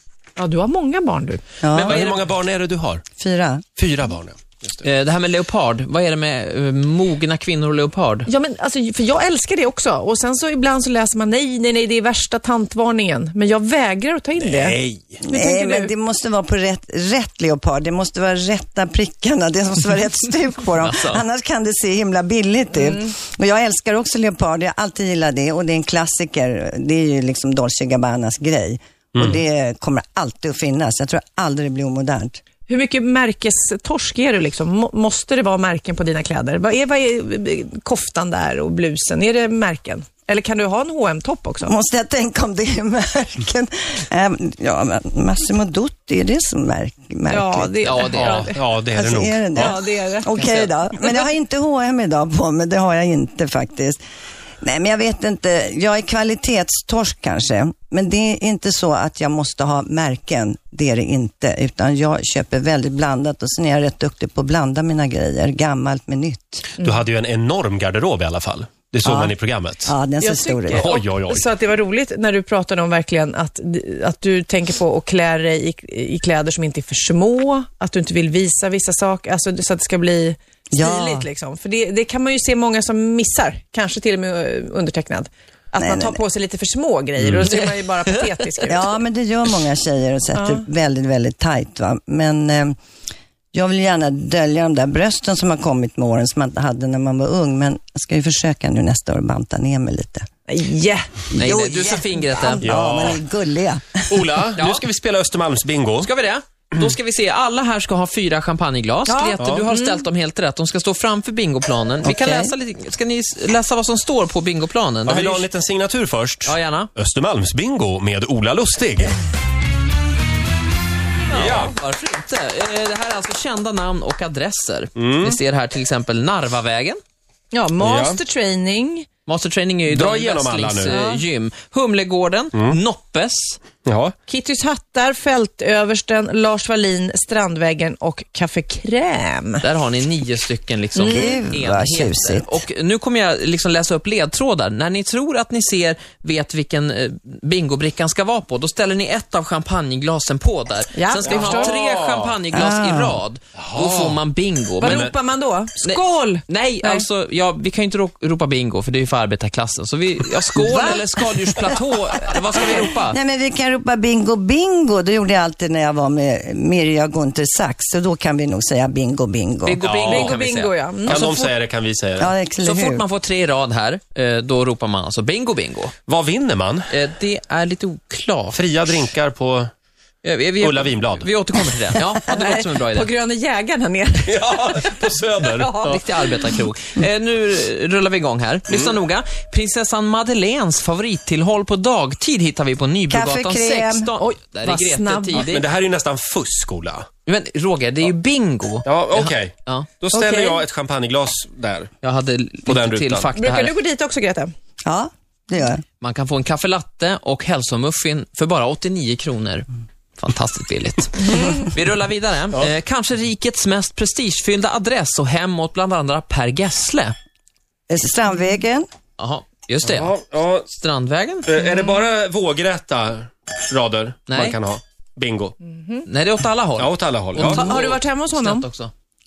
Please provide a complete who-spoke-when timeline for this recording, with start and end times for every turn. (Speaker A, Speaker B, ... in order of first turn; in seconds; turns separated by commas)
Speaker A: 0.4-1.4, Speaker B: 1.6-2.1, Speaker C: 1.8-3.0, Speaker B: 3.2-3.6, Speaker C: 3.8-4.8, Speaker D: 4.8-8.3, Speaker A: 8.3-15.9, Speaker C: 14.4-15.2, Speaker B: 15.3-32.4, Speaker D: 20.8-21.2, Speaker A: 32.7-41.7, Speaker B: 41.6-47.7, Speaker A: 47.3-48.6, Speaker D: 47.8-48.5, Speaker C: 48.1-49.8, Speaker B: 48.9-54.0, Speaker A: 49.5-50.3, Speaker D: 50.3-50.7, Speaker B: 54.6-66.7, Speaker C: 66.8-69.9, Speaker B: 69.0-70.8, Speaker A: 70.2-89.0, Speaker C: 70.7-71.5, Speaker B: 80.7-81.3, Speaker B: 85.8-86.2, Speaker B: 88.7-92.7, Speaker A: 90.3-90.6, Speaker B: 93.5-100.3, Speaker A: 100.5-102.6, Speaker B: 101.3-104.3, Speaker D: 101.3-102.6, Speaker C: 102.6-103.2, Speaker C: 104.1-106.1, Speaker D: 104.6-104.8, Speaker D: 106.0-115.5, Speaker A: 109.1-110.0, Speaker C: 109.4-109.6, Speaker B: 112.0-112.5, Speaker C: 115.0-119.2, Speaker D: 116.4-116.9, Speaker D: 121.3-127.0, Speaker C: 121.3-121.8, Speaker C: 125.0-125.4, Speaker A: 127.5-129.1, Speaker C: 127.8-128.2, Speaker D: 129.2-133.6, Speaker C: 129.9-131.0, Speaker A: 130.9-131.2, Speaker C: 133.8-134.1, Speaker A: 134.3-139.6, Speaker D: 139.6-155.1, Speaker A: 141.0-141.4, Speaker B: 141.0-142.6, Speaker A: 150.9-151.7, Speaker C: 151.3-152.3, Speaker B: 152.5-153.2, Speaker C: 153.6-154.2, Speaker A: 154.8-157.1, Speaker C: 154.8-155.1, Speaker D: 155.8-163.2, Speaker B: 160.6-161.6, Speaker B: 162.5-169.8, Speaker D: 169.6-171.3, Speaker C: 169.8-170.4, Speaker A: 170.0-171.5, Speaker C: 171.1-172.3, Speaker B: 172.2-173.0, Speaker D: 172.6-175.9, Speaker C: 176.1-176.9, Speaker D: 176.9-178.6, Speaker C: 178.5-179.7, Speaker D: 180.2-183.1, Speaker C: 180.6-181.3, Speaker A: 182.0-186.4, Speaker C: 184.3-185.9, Speaker D: 185.8-195.6, Speaker C: 188.7-188.9, Speaker B: 193.1-194.1, Speaker A: 194.2-195.5, Speaker C: 195.3-197.1, Speaker D: 197.2-199.9, Speaker C: 198.8-201.9, Speaker A: 200.1-200.6, Speaker D: 202.0-203.7, Speaker C: 202.7-203.3, Speaker A: 203.3-204.5, Speaker B: 204.8-205.8, Speaker D: 206.0-217.2, Speaker A: 211.2-211.7, Speaker B: 217.9-218.9, Speaker D: 219.2-221.5, Speaker C: 219.8-220.7, Speaker C: 221.4-225.5, Speaker D: 224.3-224.6, Speaker A: 225.7-226.0, Speaker D: 226.0-228.9, Speaker C: 226.8-227.8, Speaker A: 227.4-228.6